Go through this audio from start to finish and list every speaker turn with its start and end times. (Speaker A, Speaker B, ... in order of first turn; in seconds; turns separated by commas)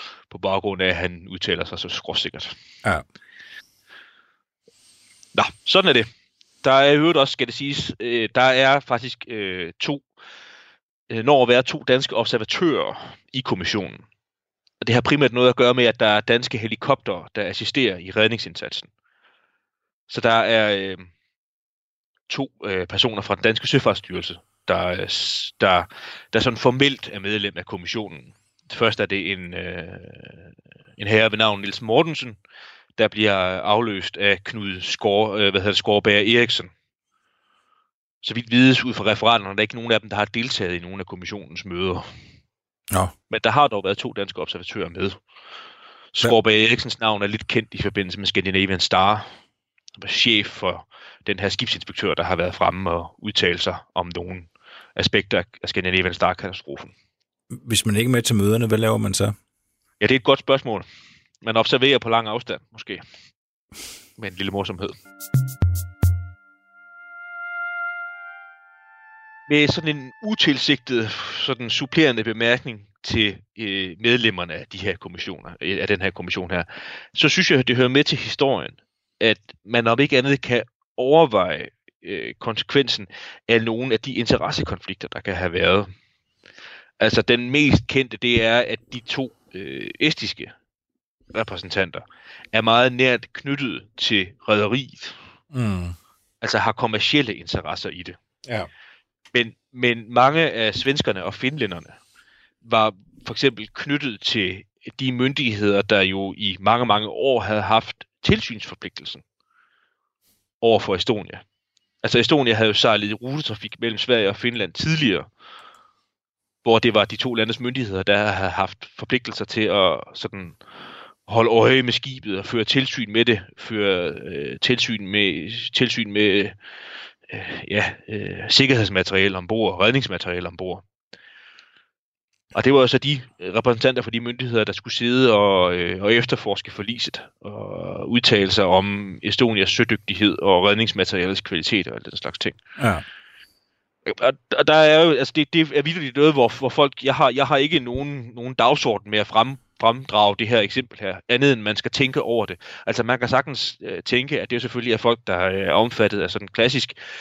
Speaker A: 0.3-2.5, Speaker A: 5.3-6.1, Speaker A: 6.6-10.1, Speaker A: 11.1-14.0, Speaker A: 14.8-18.9, Speaker A: 20.1-21.1, Speaker A: 22.3-32.4, Speaker A: 33.0-36.7, Speaker A: 38.2-42.1, Speaker A: 43.3-45.2, Speaker A: 46.1-49.3, Speaker A: 50.0-56.9, Speaker B: 57.5-59.4, Speaker A: 60.0-60.9, Speaker A: 61.4-63.0, Speaker A: 64.2-64.9, Speaker A: 69.5-85.9, Speaker A: 87.0-90.5, Speaker A: 91.3-95.2, Speaker B: 95.5-96.0, Speaker A: 96.4-98.2, Speaker A: 99.3-102.0, Speaker A: 102.6-109.2, Speaker A: 110.6-111.4, Speaker A: 112.0-115.3, Speaker A: 116.6-120.6, Speaker A: 121.2-126.5, Speaker A: 127.3-130.8, Speaker A: 132.5-142.6, Speaker B: 142.8-143.0, Speaker A: 144.1-156.9